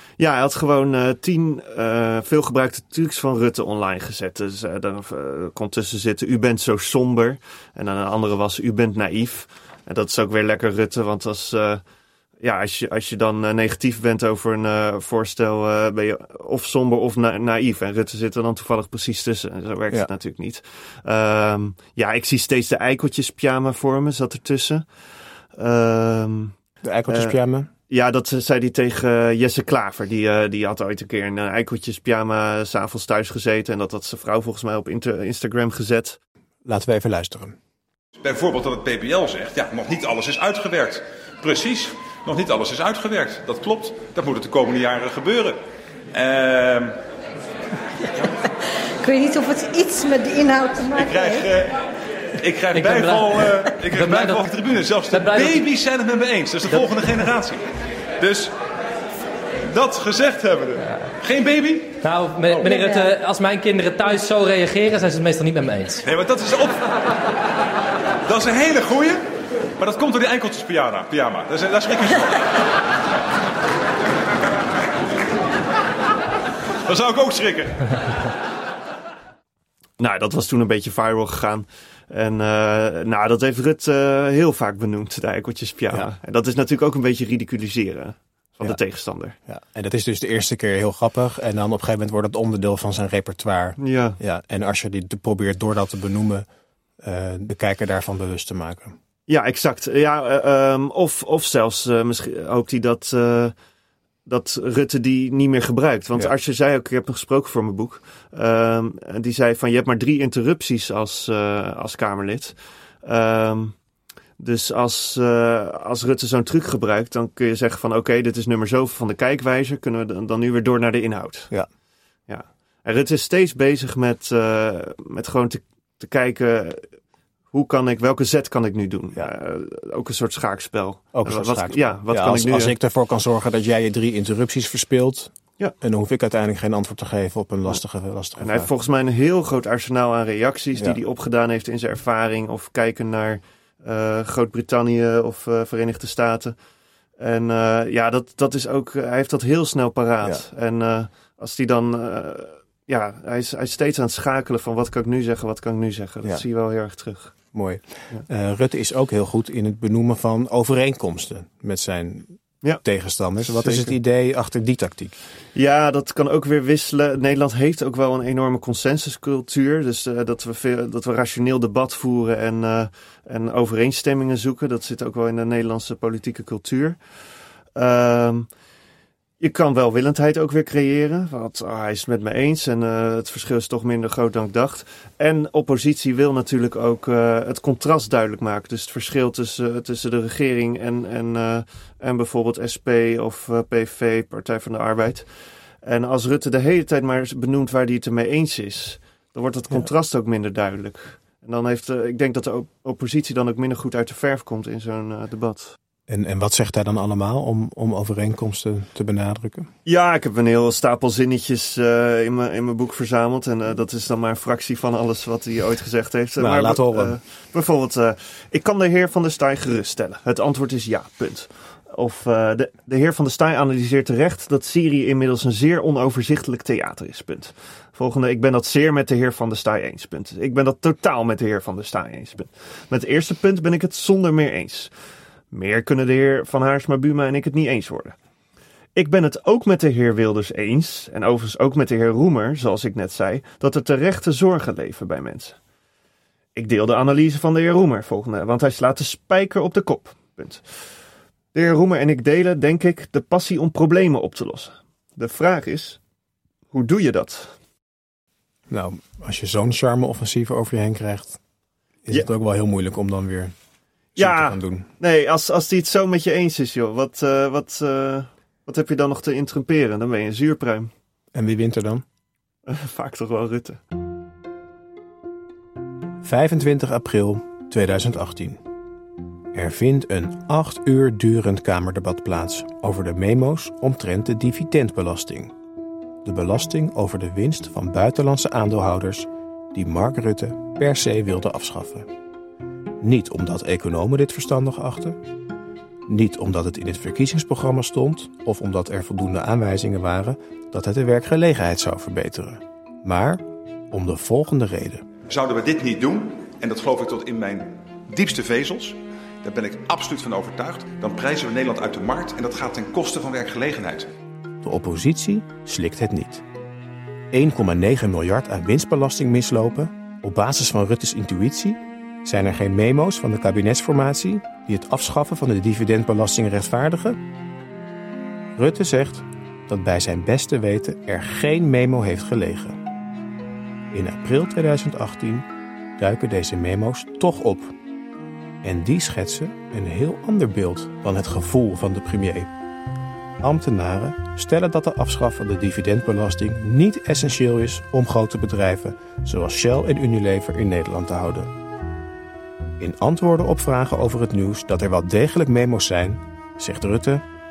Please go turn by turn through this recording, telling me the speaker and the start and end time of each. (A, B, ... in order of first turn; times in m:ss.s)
0:00.2-0:11.8 A
0:12.4-0:24.8 A
0:25.6-0:26.6 A
0:26.8-0:27.7 B
0:27.1-0:36.2 A
0:36.6-0:37.6 B
0:38.2-0:45.6 C
0:46.1-0:47.0 C
0:49.0-0:51.5 D
0:51.0-0:51.8 C
0:52.4-0:57.7 C
0:52.7-0:54.5 E
0:55.1-0:55.6 E
0:58.2-0:58.5 C
0:59.6-1:02.0 C
1:02.0-1:06.0 E
1:02.7-1:03.1 D
1:06.0-1:06.9 C
1:08.3-1:09.2 C
1:09.8-1:12.5 C
1:16.8-1:18.0 C
1:20.0-1:29.4 A
1:29.5-1:36.5 B
1:33.8-1:34.2 A
1:37.0-1:39.0 B
1:39.3-1:43.6 A
1:44.3-1:53.8 A
1:54.4-2:01.5 A
2:02.3-2:06.9 A
2:07.5-2:12.7 A
2:11.1-2:18.7 B
2:18.4-2:26.6 A
2:27.2-2:37.4 A
2:37.5-2:45.2 B
2:43.4-2:43.9 A
2:45.6-2:57.0 A
2:57.8-2:58.5 A
2:59.4-3:15.3 A
3:15.8-3:25.8 A
3:26.1-3:29.7 B
3:29.9-3:54.9 A
3:36.4-3:37.2 B
3:55.5-3:58.2 A
3:59.0-4:05.6 A
4:06.6-4:10.6 A
4:11.5-4:16.0 A
4:16.7-4:17.6 A
4:18.7-4:21.4 B
4:22.1-4:23.6 B
4:24.2-4:24.9 B
4:24.2-4:30.9 A
4:31.3-4:32.0 B
4:32.7-4:33.8 A
4:36.2-4:38.6 B
4:39.5-4:45.5 B
4:46.2-4:52.1 B
4:53.0-4:55.2 B
4:56.1-5:05.1 B
5:05.3-5:14.1 C
5:14.6-5:16.4 B
5:17.3-5:27.2 B
5:28.6-5:32.8 B
5:33.9-5:37.8 B
5:38.6-5:42.5 B
5:43.4-5:51.5 B
5:52.8-5:57.2 B